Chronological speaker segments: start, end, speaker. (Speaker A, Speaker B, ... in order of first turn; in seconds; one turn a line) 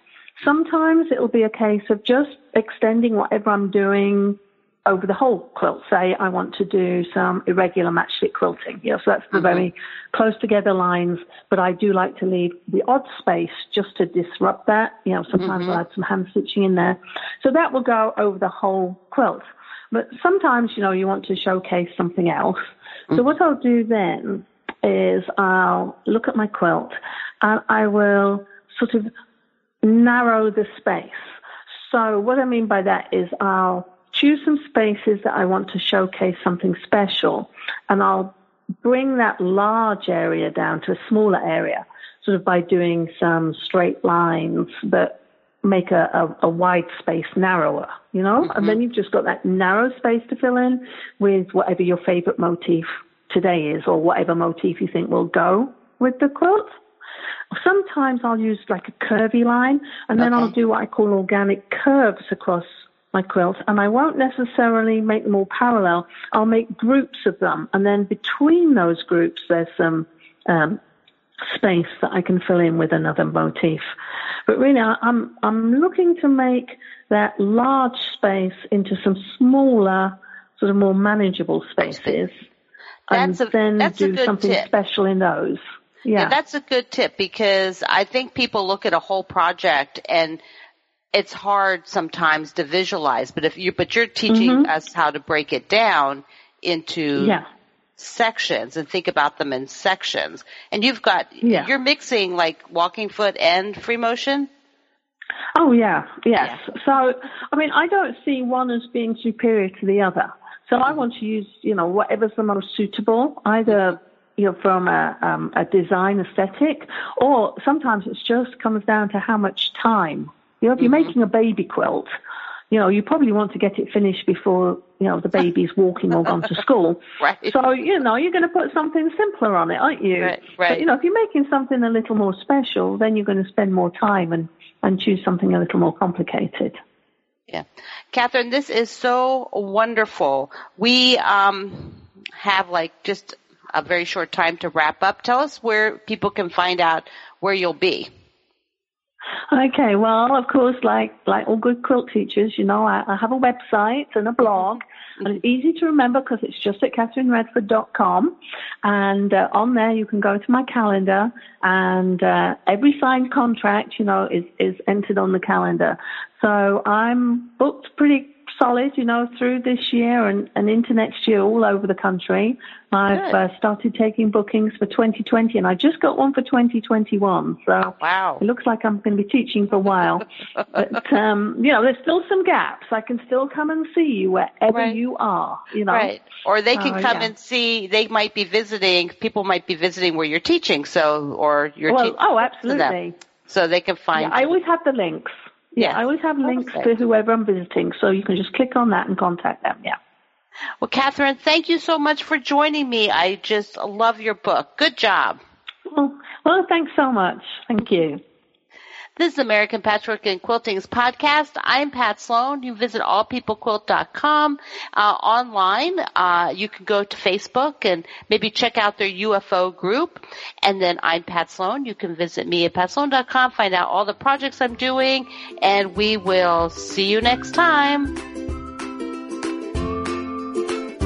Speaker A: 0.4-22.6
Speaker B: 9.3-9.7
Speaker B: 15.3-15.8
Speaker A: 23.1-29.1
Speaker A: 29.8-31.2
Speaker A: 31.8-56.8
Speaker B: 48.4-48.8
Speaker A: 57.5-70.8
Speaker B: 60.2-60.5
Speaker A: 71.5-73.9
Speaker A: 74.5-82.4
Speaker B: 81.8-82.2
Speaker A: 83.1-86.4
Speaker B: 83.1-84.7
Speaker B: 86.1-90.4
Speaker B: 91.1-97.4
Speaker A: 94.3-94.7
Speaker A: 97.2-97.5
Speaker B: 98.0-104.5
Speaker A: 101.4-101.7
Speaker A: 105.6-122.1
Speaker B: 120.8-121.1
Speaker A: 122.7-136.8
Speaker B: 127.2-127.6
Speaker B: 130.2-130.9
Speaker B: 137.5-148.1
Speaker A: 149.5-186.1
Speaker B: 173.1-173.4
Speaker B: 178.0-178.4
Speaker B: 184.7-185.0
Speaker B: 185.9-194.6
Speaker A: 186.7-187.3
Speaker A: 191.9-193.2
Speaker A: 194.2-200.0
Speaker B: 195.8-196.9
Speaker B: 200.8-205.4
Speaker A: 205.9-208.2
Speaker B: 209.2-228.1